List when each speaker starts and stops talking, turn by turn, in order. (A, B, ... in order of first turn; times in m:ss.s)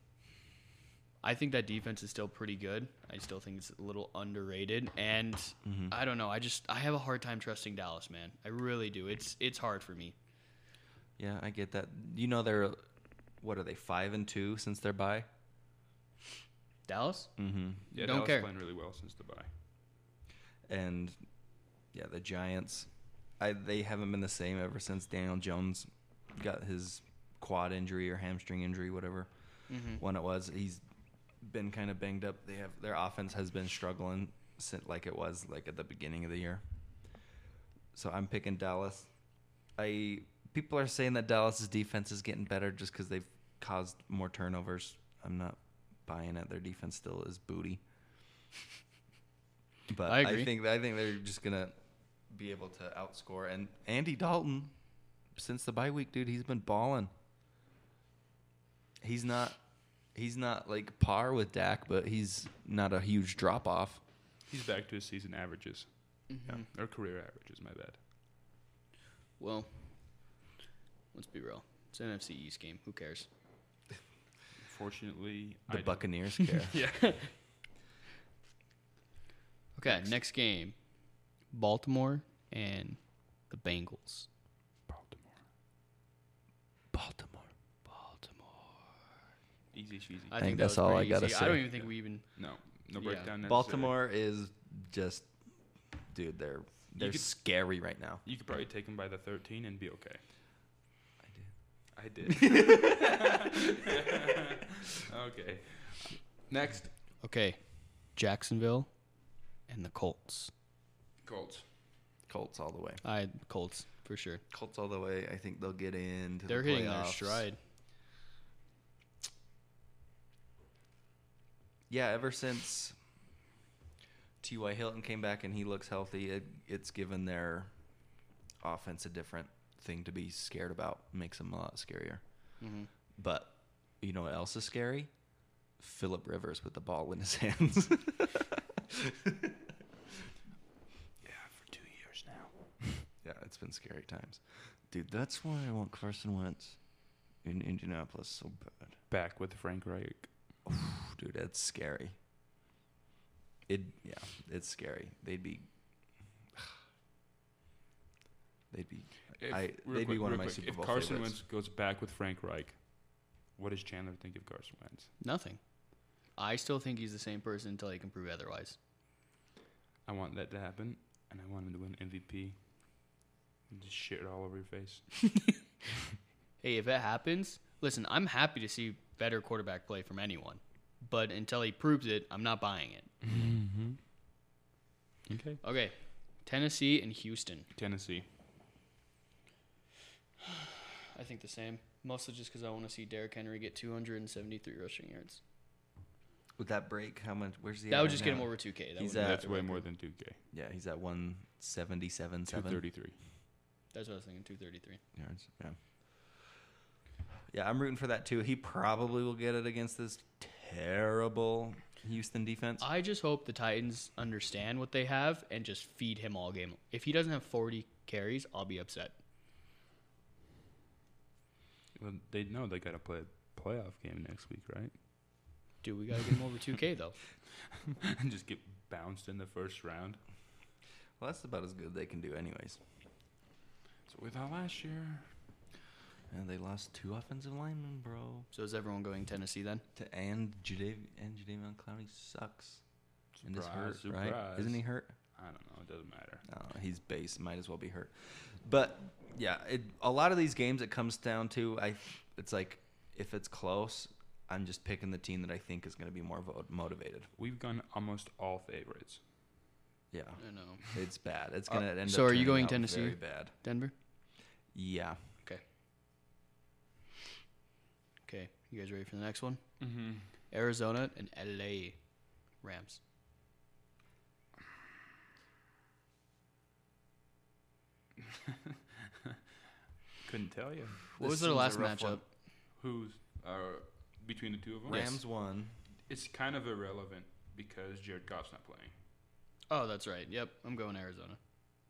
0:01.2-0:10.2 A
0:05.6-0:05.9 B
0:11.2-0:12.8 B
0:13.4-0:15.3 B
0:16.9-0:17.3 A
0:17.4-0:17.8 B
0:17.9-0:18.5 A
0:17.9-0:19.5 C
0:20.7-0:21.2 B
0:21.9-0:29.3 B
0:29.7-0:30.0 A
0:30.0-0:30.8 B
0:31.4-0:36.6 B
0:37.9-0:39.1 B
0:39.8-0:47.8 B
0:49.9-0:51.7 B
0:50.1-0:50.5 A
0:52.3-0:54.7 B
0:55.3-0:57.1 B
0:59.0-0:59.6 B
1:00.1-1:04.0 B
1:04.5-1:08.0 C
1:06.3-1:06.6 A
1:09.4-1:10.2 A
1:11.1-1:13.3 A
1:14.6-1:17.2 C
1:15.7-1:16.8 B
1:19.8-1:20.8 A
1:21.5-1:24.3 A
1:24.9-1:25.4 C
1:26.9-1:27.5 B
1:27.9-1:28.7 A
1:29.7-1:30.4 C
1:30.3-1:32.3 A
1:30.4-1:31.7 B
1:31.7-1:34.0 C
1:32.9-1:33.3 A
1:33.4-1:35.3 B
1:36.1-1:38.2 B
1:37.0-1:37.4 C
1:38.2-1:40.2 C
1:41.2-1:41.5 B
1:41.9-1:46.9 C
1:42.5-1:43.0 B
1:47.2-1:49.0 A
1:49.7-1:50.5 A
1:51.2-1:51.7 C
1:52.3-1:53.0 B
1:53.0-1:54.4 A
1:54.5-1:57.5 B
1:56.5-1:57.6 A
2:01.9-2:03.0 B
2:04.4-2:07.7 B
2:08.6-2:12.5 B
2:12.6-2:12.9 A
2:13.2-2:15.1 B
2:15.8-2:19.7 B
2:21.2-2:23.1 C
2:23.2-2:26.8 B
2:27.4-2:29.0 B
2:29.1-2:30.3 C
2:30.7-2:32.2 B
2:33.7-2:35.7 B
2:38.7-2:41.4 B
2:39.4-2:45.1 C
2:45.2-2:48.8 A
2:50.1-2:52.6 C
2:53.7-2:55.2 C
2:56.6-3:03.1 A
3:03.2-3:04.0 C
3:03.3-3:03.6 B
3:05.3-3:05.6 C
3:05.6-3:07.7 A
3:07.8-3:08.3 C
3:10.5-3:15.4 A
3:16.6-3:19.5 B
3:17.9-3:19.8 A
3:19.1-3:20.4 C
3:20.5-3:22.8 B
3:22.5-3:23.2 C
3:23.9-3:25.0 A
3:25.2-3:25.8 B
3:27.5-3:32.8 B
3:32.8-3:39.2 A
3:42.0-3:44.9 C
3:45.8-3:47.2 A
3:47.8-3:50.2 C
3:51.2-3:52.8 B
3:54.1-3:55.3 C
3:56.3-3:58.5 B
3:58.5-3:59.8 A
4:00.0-4:02.8 B
4:03.4-4:04.8 C
4:03.4-4:05.1 B
4:05.3-4:06.4 C
4:06.5-4:17.3 B
4:17.4-4:19.2 C
4:20.1-4:23.5 B
4:20.4-4:20.8 A
4:21.7-4:23.9 A
4:24.7-4:25.2 B
4:28.3-4:29.6 A
4:29.8-4:30.3 C
4:30.5-4:32.0 A
4:32.6-4:33.0 A
4:40.2-4:42.1 C
4:41.2-4:42.2 A
4:41.2-4:42.2 B
4:42.8-4:45.1 C
4:44.9-4:45.8 B
4:44.9-4:45.2 A
4:46.1-4:48.9 C
4:49.7-4:51.4 A